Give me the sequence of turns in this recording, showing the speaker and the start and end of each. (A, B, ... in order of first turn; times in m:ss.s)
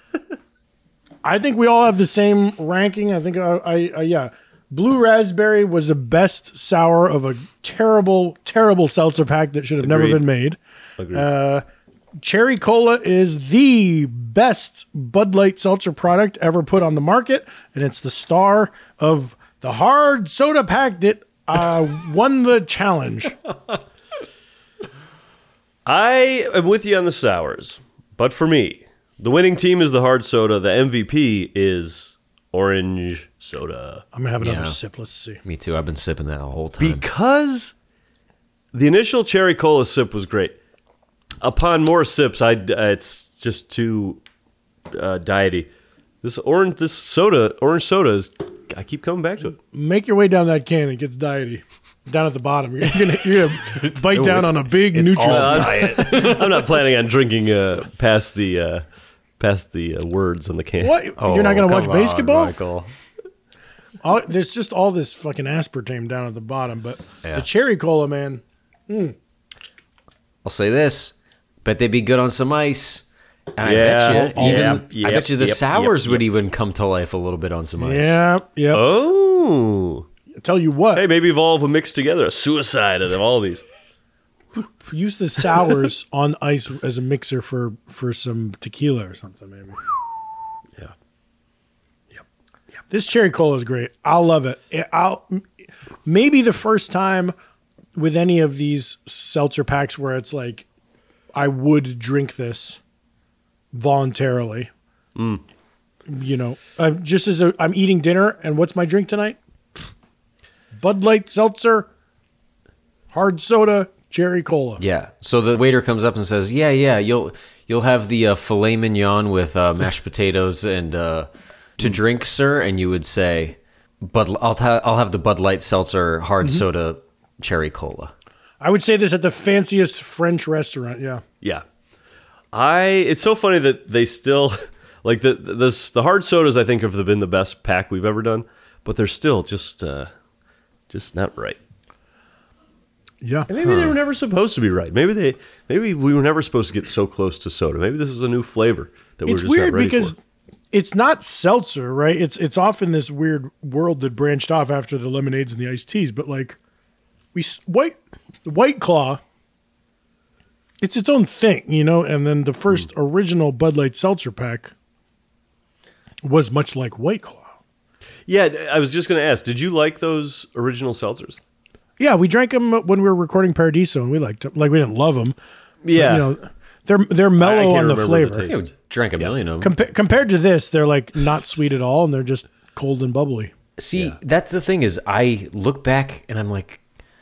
0:01.2-0:10.6 A
0:09.8-0:10.2 B
0:11.0-0:11.3 B
0:11.1-0:11.6 A
0:12.2-0:23.4 A
0:25.8-0:34.0 B
0:34.1-0:35.4 A
0:34.4-0:34.8 C
0:35.4-0:37.0 C
0:36.8-0:37.7 B
0:38.7-0:40.6 B
0:41.4-0:44.2 B
0:44.9-0:45.7 B
0:46.2-0:49.6 B
0:49.7-0:56.0 A
0:53.5-0:56.8 C
0:54.9-0:58.8 B
0:59.4-1:01.0 B
1:00.8-1:02.5 A
1:01.2-1:02.9 C
1:04.0-1:09.1 A
1:10.4-1:13.0 C
1:13.5-1:18.2 C
1:13.6-1:16.2 B
1:14.1-1:14.8 A
1:17.8-1:18.8 A
1:18.7-1:20.1 B
1:20.4-1:21.0 A
1:20.9-1:23.6 B
1:24.5-1:29.8 A
1:32.9-1:35.4 A
1:36.0-1:37.3 A
1:37.9-1:40.6 A
1:41.3-1:42.8 A
1:43.7-1:44.7 A
1:45.2-1:45.4 B
1:46.1-1:49.4 A
1:50.7-1:51.9 A
1:53.1-1:54.8 A
1:54.8-2:08.1 C
2:08.6-2:11.2 A
2:12.5-2:20.1 B
2:20.9-2:21.6 B
2:23.2-2:23.5 A
2:23.5-2:30.1 B
2:29.2-2:30.2 A
2:30.7-2:36.6 A
2:37.3-2:39.2 A
2:40.8-2:44.7 A
2:46.2-2:47.5 A
2:48.3-2:51.4 B
2:52.0-2:55.4 A
2:55.8-2:56.3 B
2:55.9-2:58.5 A
2:57.4-2:59.3 B
2:58.4-2:59.7 C
2:59.6-3:03.5 A
3:03.8-3:06.8 C